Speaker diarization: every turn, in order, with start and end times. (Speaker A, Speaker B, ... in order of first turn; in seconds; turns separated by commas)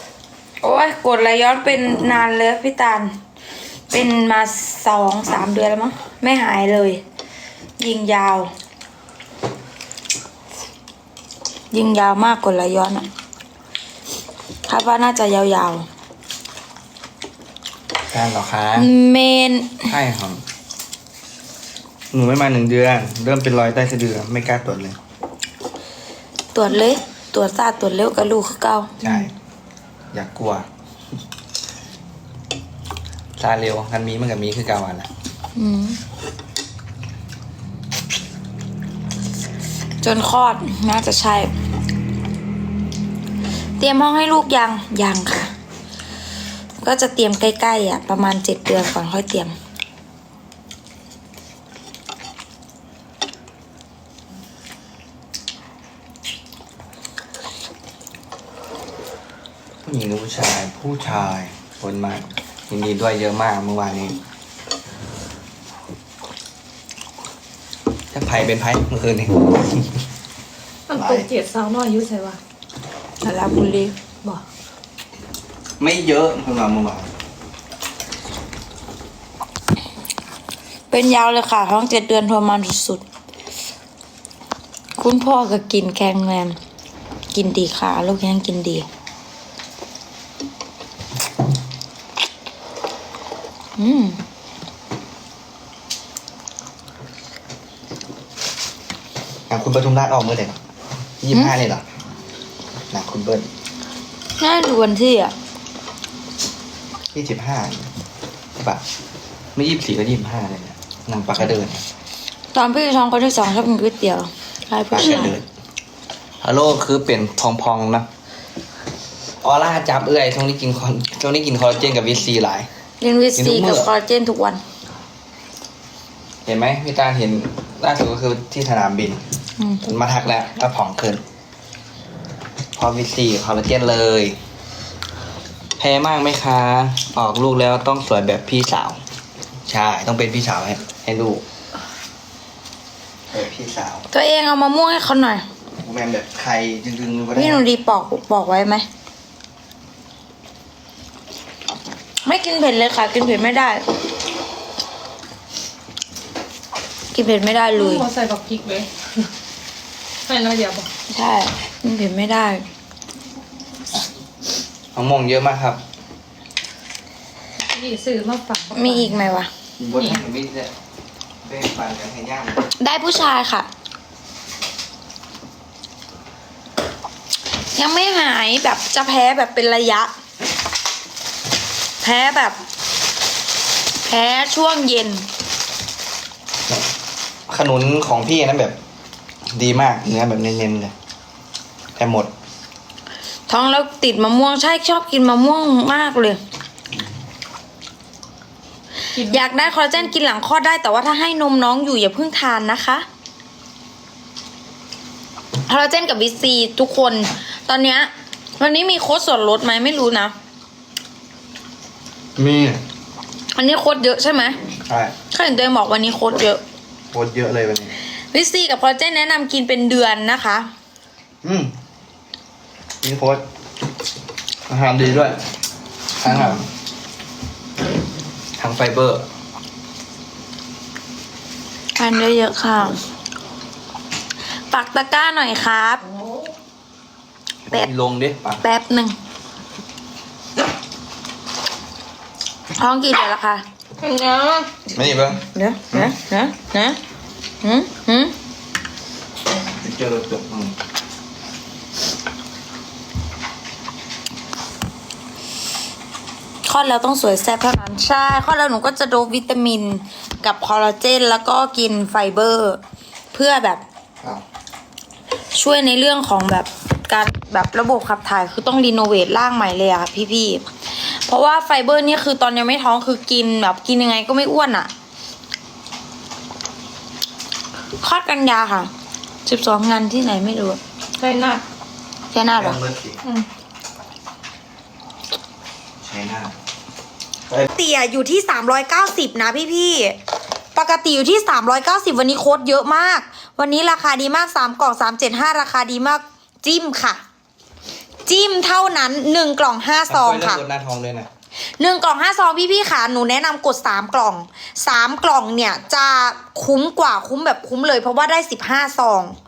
Speaker A: 0.6-3.1, Speaker A: 3.9-7.0, Speaker A: 7.8-8.5, Speaker A: 11.7-13.1, Speaker A: 14.7-15.9, Speaker B: 18.1-18.9, Speaker A: 18.7-19.9, Speaker B: 19.9-20.4, Speaker B: 22.1-25.0, Speaker A: 26.5-29.3, Speaker B: 29.0-29.3, Speaker B: 30.1-30.7, Speaker B: 33.4-35.1, Speaker A: 35.5-36.0, Speaker A: 40.0-41.5, Speaker A: 43.8-45.5, Speaker A: 46.8-49.5, Speaker B: 59.8-64.2, Speaker B: 68.1-69.9, Speaker C: 70.9-72.4, Speaker B: 70.9-71.3, Speaker A: 73.2-74.0, Speaker B: 75.8-77.1, Speaker A: 80.9-83.0, Speaker A: 85.0-86.6, Speaker A: 87.3-88.9, Speaker A: 93.8-94.2, Speaker B: 99.5-100.6, Speaker B: 101.2-101.8, Speaker B: 102.9-103.5, Speaker A: 104.4-105.3, Speaker B: 107.1-107.9, Speaker B: 109.5-111.9, Speaker A: 112.5-115.3, Speaker B: 114.9-115.5, Speaker B: 116.4-118.1, Speaker B: 119.4-122.7, Speaker A: 123.0-124.6, Speaker B: 123.4-123.9, Speaker B: 126.5-129.2, Speaker A: 129.6-129.8, Speaker B: 129.8-131.2, Speaker B: 132.8-134.4, Speaker B: 135.8-139.0, Speaker B: 139.7-141.4, Speaker B: 143.3-144.0, Speaker A: 144.1-145.4, Speaker B: 145.8-147.6, Speaker A: 147.3-148.8, Speaker A: 152.2-153.9, Speaker A: 157.1-158.1, Speaker C: 157.7-159.3, Speaker C: 160.2-160.9, Speaker A: 161.1-162.6, Speaker B: 164.9-165.8, Speaker C: 167.7-169.2, Speaker A: 168.7-169.5, Speaker B: 169.8-170.7, Speaker B: 171.4-172.6, Speaker A: 172.8-173.7, Speaker A: 177.7-180.1, Speaker A: 182.0-182.6, Speaker A: 184.1-185.2, Speaker B: 187.5-188.8, Speaker B: 189.5-190.9, Speaker B: 191.9-192.3, Speaker A: 193.5-196.4, Speaker C: 199.1-200.1, Speaker A: 199.2-203.1, Speaker A: 205.7-210.3, Speaker B: 212.4-212.8, Speaker A: 213.5-214.6, Speaker B: 214.9-215.1, Speaker A: 215.3-216.6, Speaker B: 217.1-217.9, Speaker A: 218.3-220.7, Speaker B: 221.4-221.7, Speaker B: 223.0-223.4, Speaker B: 224.7-225.4, Speaker B: 226.2-226.7, Speaker A: 226.3-226.6, Speaker B: 228.6-229.2, Speaker A: 232.0-233.0, Speaker A: 234.7-236.1, Speaker B: 237.7-238.6, Speaker A: 238.6-239.2, Speaker A: 242.8-244.1, Speaker C: 244.1-244.7, Speaker A: 244.8-247.0, Speaker B: 244.9-246.1, Speaker A: 247.6-248.3, Speaker B: 249.8-250.8, Speaker A: 256.6-262.8, Speaker A: 263.3-263.8, Speaker A: 265.5-274.9, Speaker A: 278.0-278.9, Speaker A: 279.5-280.8, Speaker C: 281.2-281.6, Speaker A: 282.3-282.8, Speaker B: 282.5-283.2, Speaker B: 286.0-286.5, Speaker A: 287.7-290.2, Speaker A: 290.8-297.2, Speaker A: 298.2-300.6, Speaker B: 300.1-301.3, Speaker A: 301.8-309.4